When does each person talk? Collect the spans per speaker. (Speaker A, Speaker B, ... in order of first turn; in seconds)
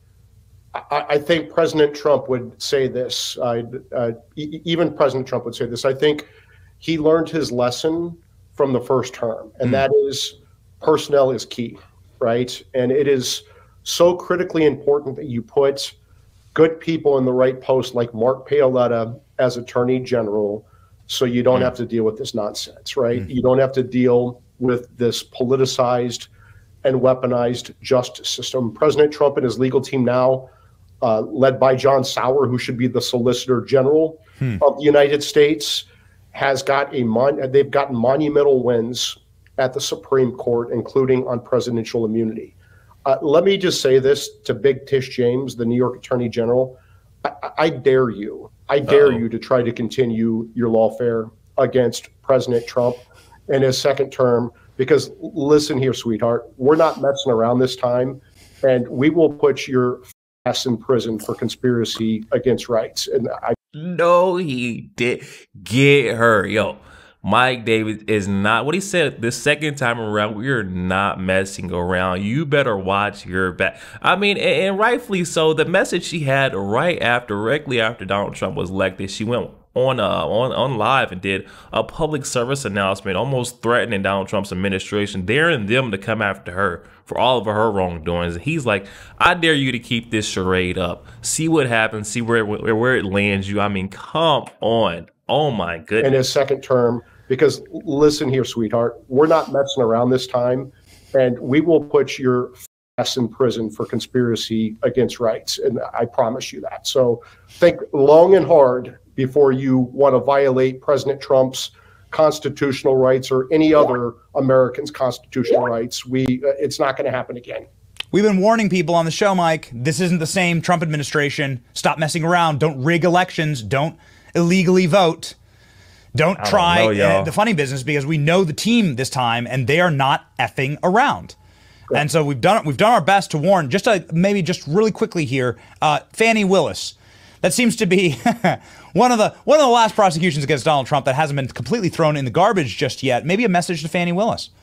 Speaker A: 0.7-6.3, 6.8-15.9, 16.5-26.3, 26.8-30.5, 31.0-42.5, 43.0-63.5, 96.0-117.7
Speaker B: 48.9-49.2, 63.7-96.2, 126.4-127.3
Speaker C: 118.1-125.3, 126.1-131.3, 131.9-144.5